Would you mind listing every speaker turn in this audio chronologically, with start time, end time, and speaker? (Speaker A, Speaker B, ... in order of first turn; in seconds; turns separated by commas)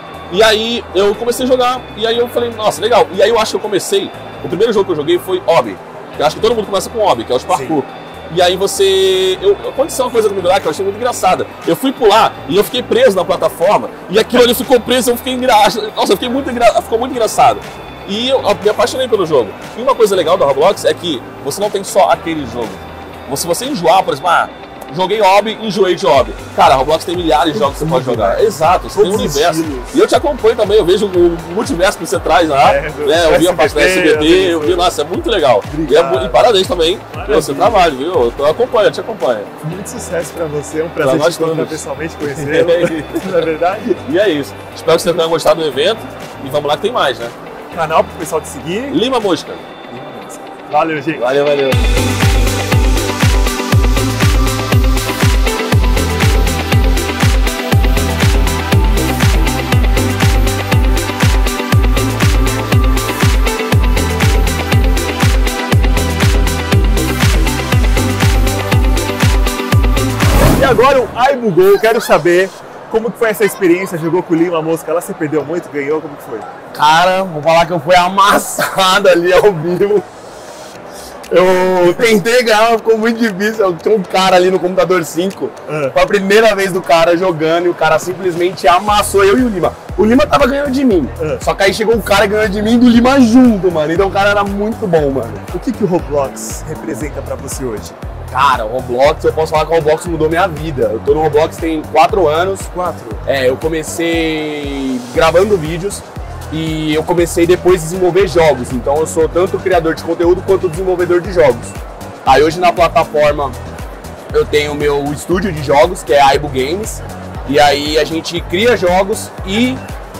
Speaker A: 0.3-39.5, Speaker B: 7.5-7.8, Speaker B: 27.5-30.0, Speaker B: 32.6-34.9, Speaker B: 35.6-36.5, Speaker B: 37.1-37.9, Speaker B: 39.6-44.0, Speaker A: 41.0-43.4, Speaker A: 44.0-47.3, Speaker B: 47.7-49.0, Speaker A: 48.9-49.6, Speaker B: 49.9-51.2, Speaker A: 51.1-51.9, Speaker B: 70.5-76.5, Speaker C: 76.7-80.0, Speaker C: 81.3-95.4, Speaker B: 85.7-85.9, Speaker B: 91.2-91.4, Speaker B: 95.5-98.0, Speaker C: 98.3-102.7, Speaker B: 102.7-103.2, Speaker C: 103.2-111.7, Speaker C: 112.2-113.6, Speaker C: 114.3-119.8